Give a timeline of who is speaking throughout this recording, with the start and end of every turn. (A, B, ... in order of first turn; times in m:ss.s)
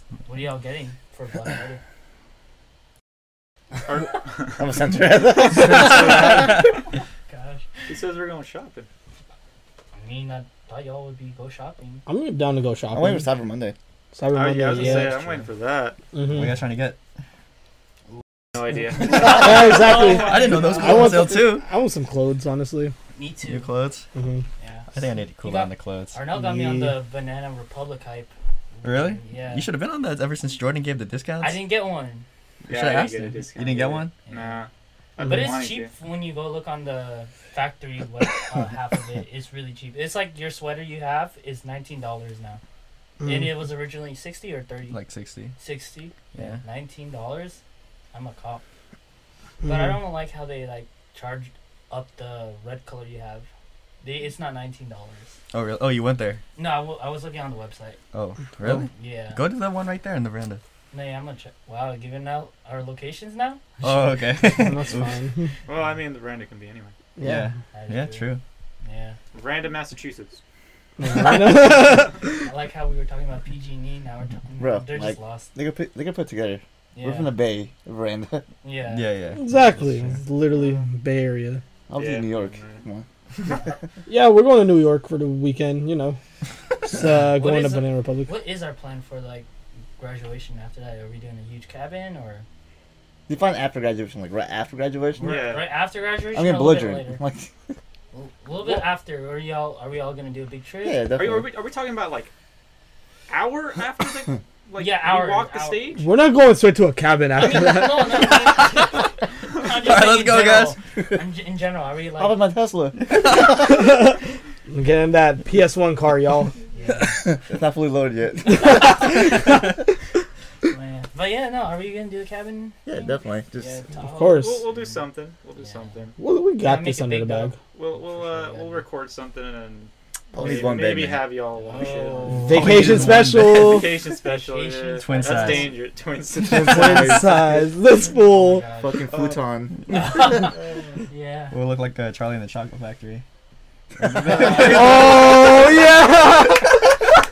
0:00.2-0:01.8 A
0:03.9-0:04.6 B
0:04.6-0:06.6 C
0:05.6-0:06.7 B
0:07.3-0:07.9 A
0:07.9-0:08.9 B
0:09.9-0:12.0 A
0:12.1-0:13.3 D
0:12.9-0:13.8 C
0:14.1-0:15.2 D
0:14.3-0:16.0 B
0:14.8-0:15.3 A
0:16.1-0:16.6 D
0:16.3-0:17.0 E
0:18.6-0:19.7 B
0:19.0-0:22.9 D
0:19.0-0:21.2 A
0:20.1-0:21.6 E
0:23.2-0:23.7 A
0:23.4-0:24.1 E
0:24.2-0:24.4 D
0:24.6-0:24.9 A
0:24.9-0:26.2 E
0:25.4-0:29.7 A
0:26.4-0:27.0 D
0:28.8-0:31.7 E
0:31.4-0:32.3 A
0:32.6-0:34.1 E
0:32.7-0:35.9 B
0:34.3-0:34.6 A
0:35.2-0:42.6 A
0:43.2-0:43.6 D
0:43.2-0:45.0 A
0:44.9-0:45.5 E
0:45.6-0:47.6 A
0:46.3-0:46.6 E
0:48.1-0:48.6 A
0:49.6-0:50.0 D
0:49.6-0:53.5 A
0:54.0-0:55.4 A
0:55.5-0:56.4 E
0:56.6-0:58.0 A
0:58.1-1:00.6 E
0:58.6-0:59.4 A
1:00.9-1:03.6 A
1:03.8-1:05.1 E
1:04.6-1:05.5 D
1:05.7-1:07.0 B
1:07.2-1:07.5 D
1:07.2-1:08.4 E
1:07.7-1:08.3 A
1:08.8-1:09.2 A
1:09.3-1:10.4 B
1:11.0-1:12.3 D
1:12.4-1:15.5 A
1:14.6-1:18.4 C
1:16.9-1:17.4 A
1:18.6-1:19.1 A
1:18.8-1:20.2 E
1:19.4-1:21.6 D
1:20.5-1:20.9 A
1:21.9-1:23.6 C
1:22.0-1:22.8 B
1:24.1-1:26.2 D
1:26.8-1:28.3 D
1:27.4-1:29.5 A
1:30.0-1:32.5 A
1:33.3-1:35.6 C
1:35.2-1:37.2 A
1:35.2-1:35.7 B
1:36.3-1:37.7 C
1:38.1-1:41.1 A
1:38.6-1:38.8 B
1:40.8-1:41.5 C
1:41.2-1:42.3 B
1:43.3-1:46.1 B
1:44.8-1:46.0 A
1:46.0-1:48.7 D
1:47.4-1:52.4 A
1:49.6-1:50.8 E
1:52.2-1:53.7 C
1:53.1-1:53.7 E
1:53.6-1:56.5 D
1:56.7-1:57.2 A
1:57.0-1:59.2 C
1:58.6-1:59.2 D
2:00.6-2:04.6 A
2:02.9-2:03.8 C
2:04.0-2:04.6 D
2:04.4-2:06.2 B
2:05.6-2:06.0 A
2:06.2-2:07.6 D
2:06.6-2:08.8 A
2:07.7-2:17.2 B
2:10.3-2:11.4 C
2:11.6-2:13.2 A
2:12.5-2:14.0 D
2:12.5-2:14.0 E
2:14.2-2:15.8 A
2:15.0-2:15.8 E
2:16.4-2:17.7 C
2:16.5-2:17.1 E
2:16.5-2:18.6 D
2:18.1-2:19.0 A
2:18.8-2:20.5 C
2:19.1-2:19.4 B
2:19.9-2:20.6 A
2:19.9-2:20.3 E
2:21.1-2:21.6 A
2:21.5-2:23.2 E
2:24.0-2:25.4 E
2:24.1-2:24.8 A
2:24.3-2:24.8 C
2:24.5-2:27.0 D